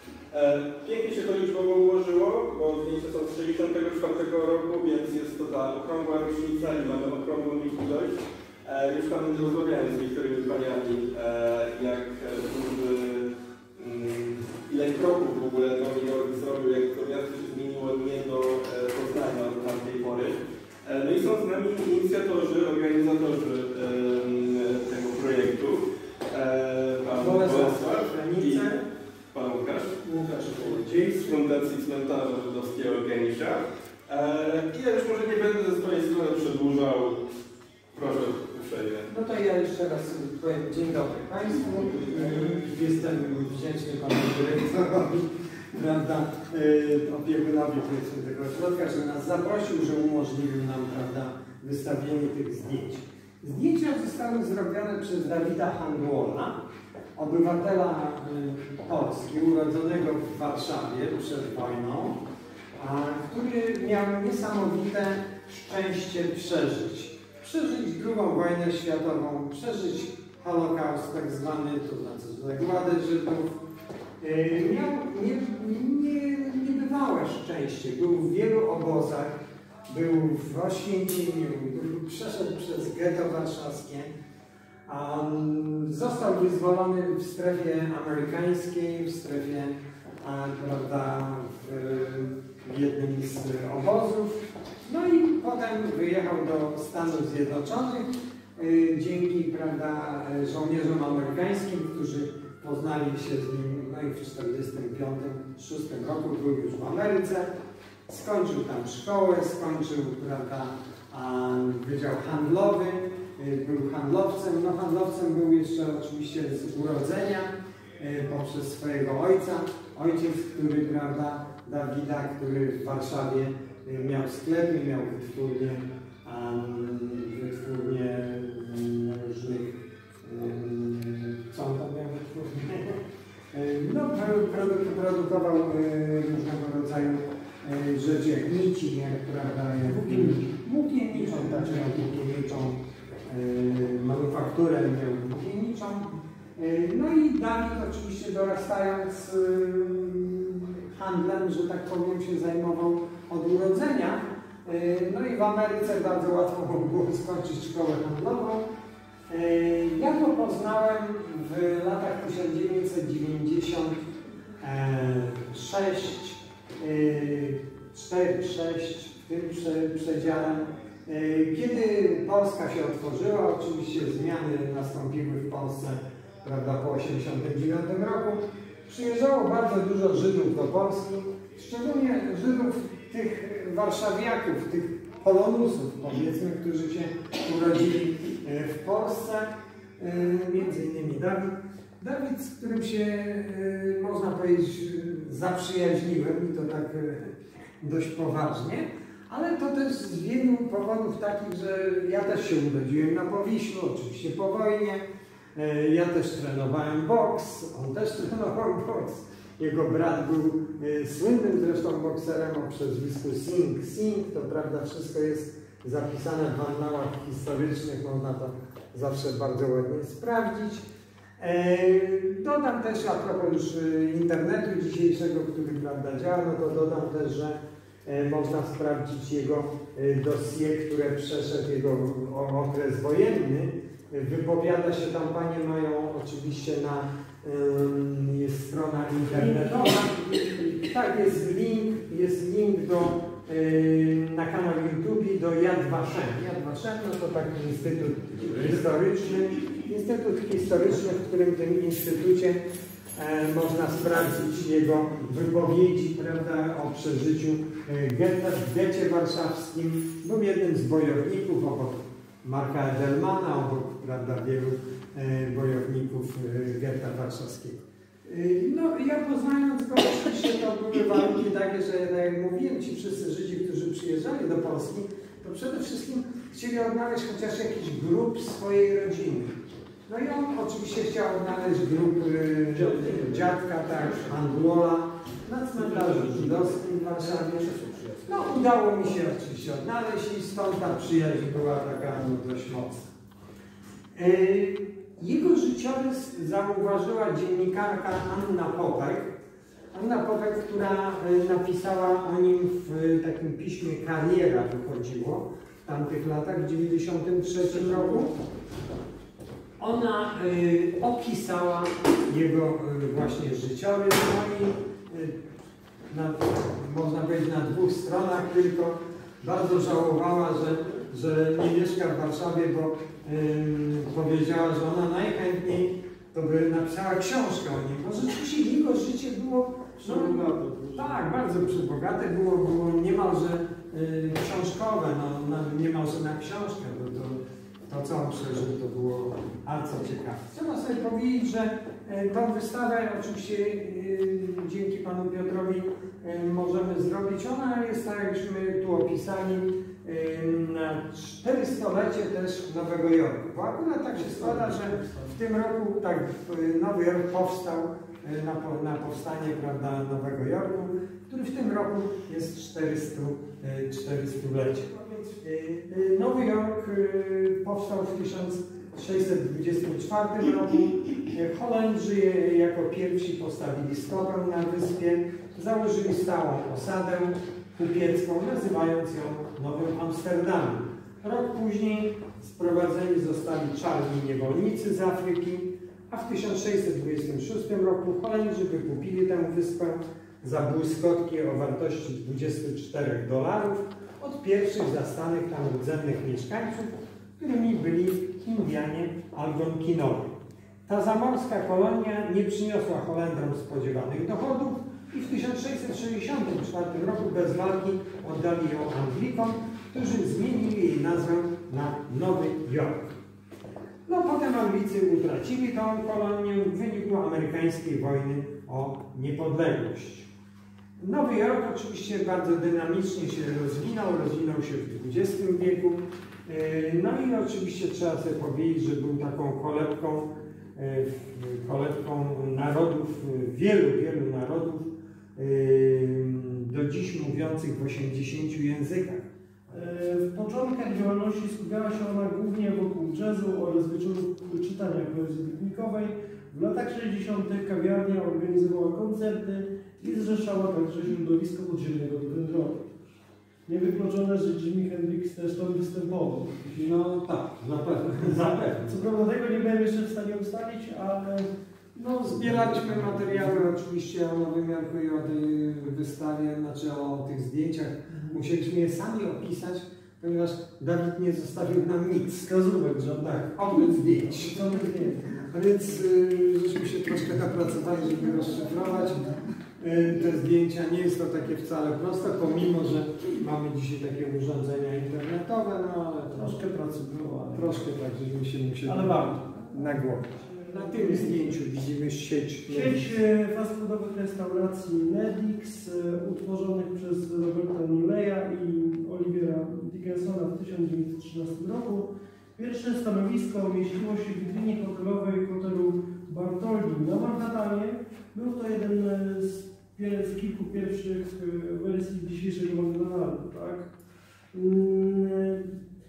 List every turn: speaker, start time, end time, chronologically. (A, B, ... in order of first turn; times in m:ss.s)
0:00.3-0:08.1 A
0:08.6-0:28.7 A
0:27.2-0:28.8 B
0:29.3-0:37.2 A
0:30.0-0:31.4 B
0:37.9-0:39.1 A
0:39.1-0:56.6 B
0:57.2-1:02.2 B
1:02.8-1:13.6 B
1:14.2-1:19.3 B
1:19.9-1:24.1 B
1:24.8-1:47.4 B
1:48.1-2:13.0 B
2:13.5-2:38.7 B
2:19.9-2:20.4 C
2:21.1-2:22.0 C
2:39.3-2:44.0 B
2:44.6-3:09.5 B
3:10.0-3:25.0 B
3:25.5-3:40.8 B
3:41.4-4:00.2 B
3:59.3-4:00.8 C
4:00.8-4:12.6 B
4:13.2-4:39.5 B
4:40.1-4:53.0 B
4:42.8-4:43.4 C
4:47.9-4:48.2 C
4:54.1-4:59.3 B
4:59.9-5:08.3 B
5:09.8-5:15.4 B
5:16.1-6:40.3 B
5:30.0-5:31.1 C
5:54.1-5:55.3 C
6:40.9-6:53.1 B
6:54.0-7:00.3 B
7:01.0-7:19.3 B
7:19.7-7:32.9 C
7:33.7-7:36.7 C
7:36.6-7:39.0 B
7:38.8-7:41.5 C
7:41.9-7:52.5 B
7:52.4-7:55.5 C
7:53.1-7:54.9 B
7:55.5-8:06.5 B
8:06.3-8:07.8 C
8:07.5-8:13.1 B
8:08.8-8:09.4 C
8:10.8-8:11.3 C
8:12.7-8:33.9 C
8:34.5-8:35.7 C